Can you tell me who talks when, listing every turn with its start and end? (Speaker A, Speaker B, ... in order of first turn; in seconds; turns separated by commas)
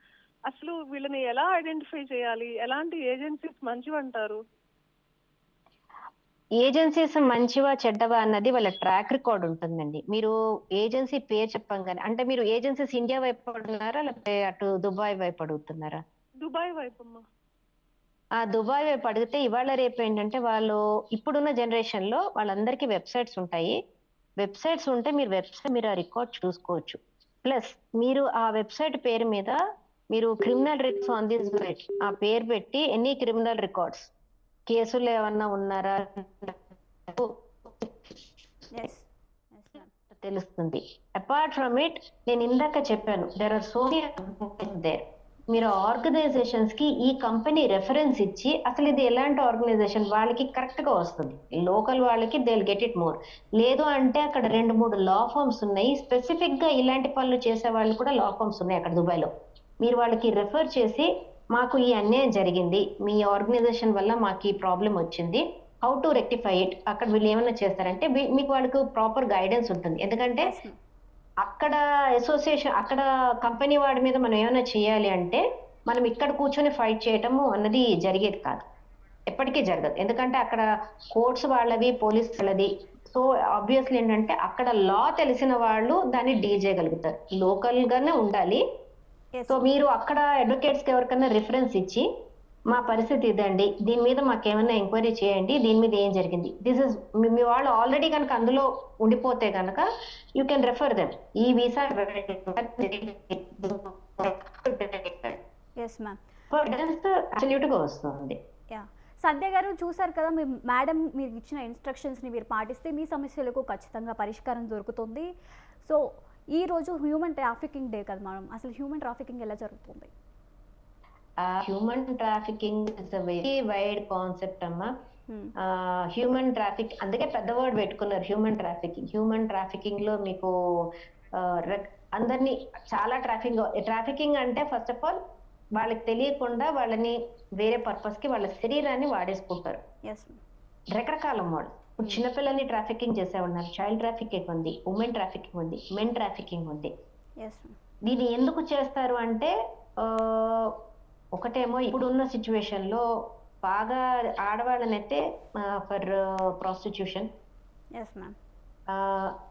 Speaker A: 0.5-4.4, Speaker B: 6.6-16.0, Speaker A: 16.4-17.2, Speaker B: 18.4-23.8, Speaker B: 24.4-29.6, Speaker B: 30.1-34.1, Speaker B: 34.7-38.1, Speaker C: 38.7-39.9, Speaker B: 40.1-59.3, Speaker B: 59.8-70.5, Speaker C: 70.4-70.8, Speaker B: 71.4-78.7, Speaker B: 79.3-88.6, Speaker C: 89.3-89.6, Speaker B: 89.5-92.0, Speaker B: 92.7-99.8, Speaker B: 100.4-105.4, Speaker C: 105.8-106.2, Speaker B: 106.5-108.4, Speaker C: 108.7-115.3, Speaker C: 115.8-120.1, Speaker B: 121.4-124.9, Speaker B: 125.6-130.5, Speaker B: 131.3-135.2, Speaker B: 135.8-139.8, Speaker C: 140.1-140.4, Speaker B: 140.9-146.9, Speaker C: 147.4-147.7, Speaker B: 148.1-150.7, Speaker B: 151.3-153.0, Speaker B: 153.6-157.3, Speaker C: 158.0-158.3, Speaker B: 158.9-159.3